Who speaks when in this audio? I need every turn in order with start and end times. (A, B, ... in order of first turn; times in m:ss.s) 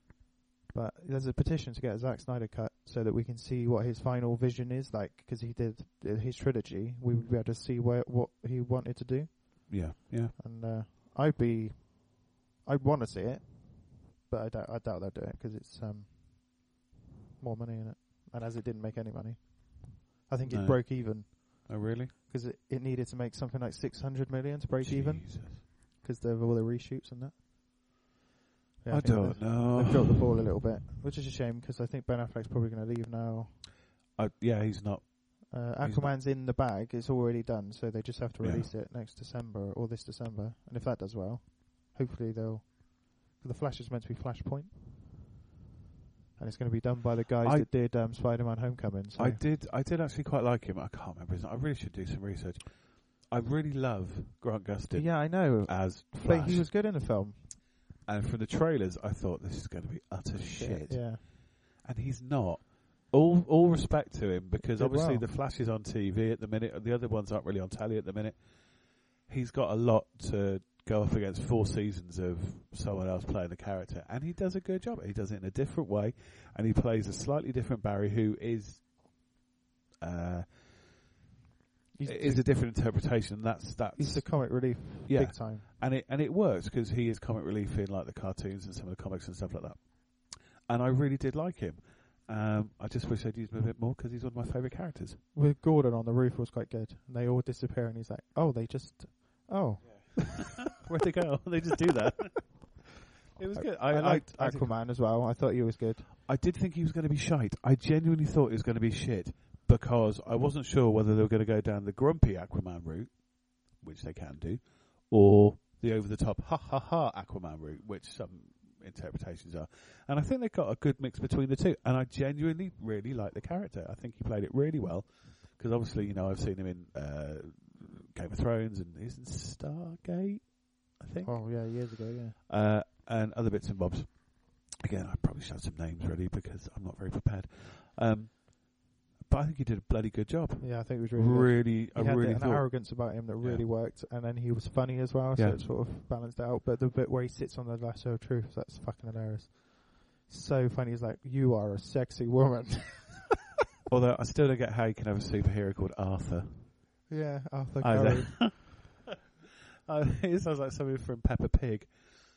0:00.7-0:16.8 A
0:09.7-0:10.4 B
0:17.4-0:27.4 A
0:20.5-0:22.1 B
0:24.8-0:25.6 B
0:28.8-0:33.6 A
0:28.9-0:30.5 B
0:34.2-0:36.2 B
0:35.5-0:44.8 A
0:38.4-0:38.7 B
0:46.4-0:49.4 A
0:47.4-0:47.7 B
0:49.2-0:56.7 B
0:54.9-0:57.5 A
0:58.0-1:18.9 B
1:00.6-1:01.2 A
1:04.7-1:05.3 A
1:20.0-1:20.8 B
1:21.9-1:22.5 A
1:22.0-1:35.2 B
1:24.0-1:25.6 A
1:35.3-1:40.6 A
1:39.8-1:44.8 B
1:43.6-1:46.1 A
1:46.3-2:11.9 B
2:11.2-2:12.4 A
2:12.5-2:23.7 B
2:20.6-2:33.3 A
2:25.4-2:25.7 B
2:33.9-2:37.1 B
2:37.1-2:38.8 A
2:37.8-2:38.9 B
2:39.9-2:42.0 B